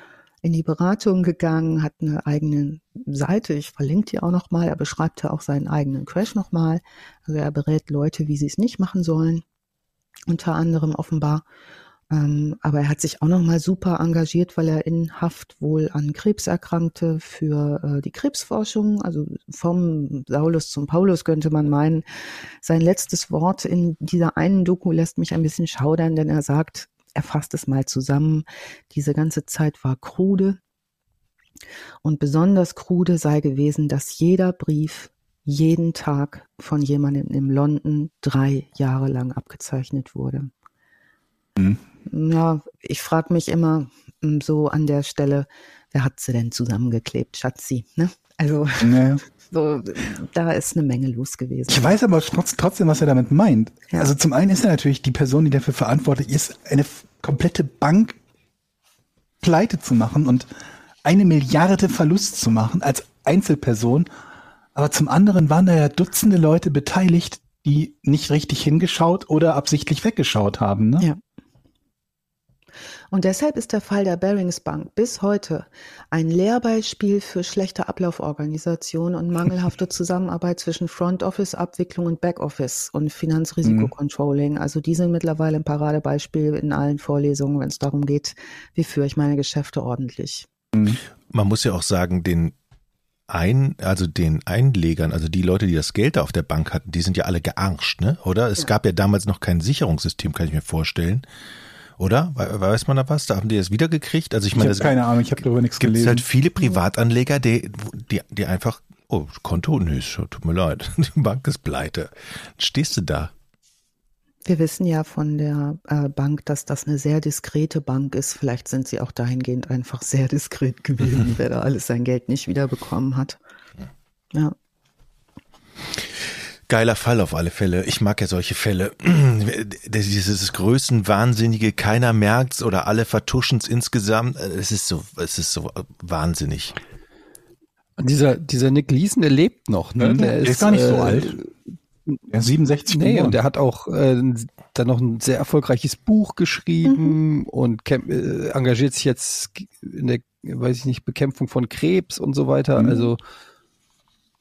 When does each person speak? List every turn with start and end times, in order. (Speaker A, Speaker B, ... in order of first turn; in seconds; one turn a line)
Speaker A: 0.4-9.4
Speaker A: 10.3-11.4
Speaker A: 12.1-22.0
Speaker A: 22.6-30.6
Speaker A: 32.0-40.5
Speaker A: 42.0-51.9
Speaker B: 48.8-49.2
Speaker B: 51.7-58.2
Speaker B: 59.4-60.5
Speaker B: 61.0-64.1
Speaker B: 64.7-71.1
Speaker A: 73.1-90.5
Speaker B: 83.6-83.9
Speaker B: 90.7-91.0
Speaker C: 91.3-92.5
Speaker C: 93.3-101.2
Speaker C: 102.0-105.2
Speaker B: 104.5-106.2
Speaker C: 105.8-113.3
Speaker A: 114.5-123.4
Speaker C: 125.9-136.8
Speaker D: 138.0-141.5
Speaker B: 140.0-141.4
Speaker B: 142.3-143.4
Speaker D: 142.9-153.2
Speaker A: 146.9-147.1
Speaker B: 152.8-153.1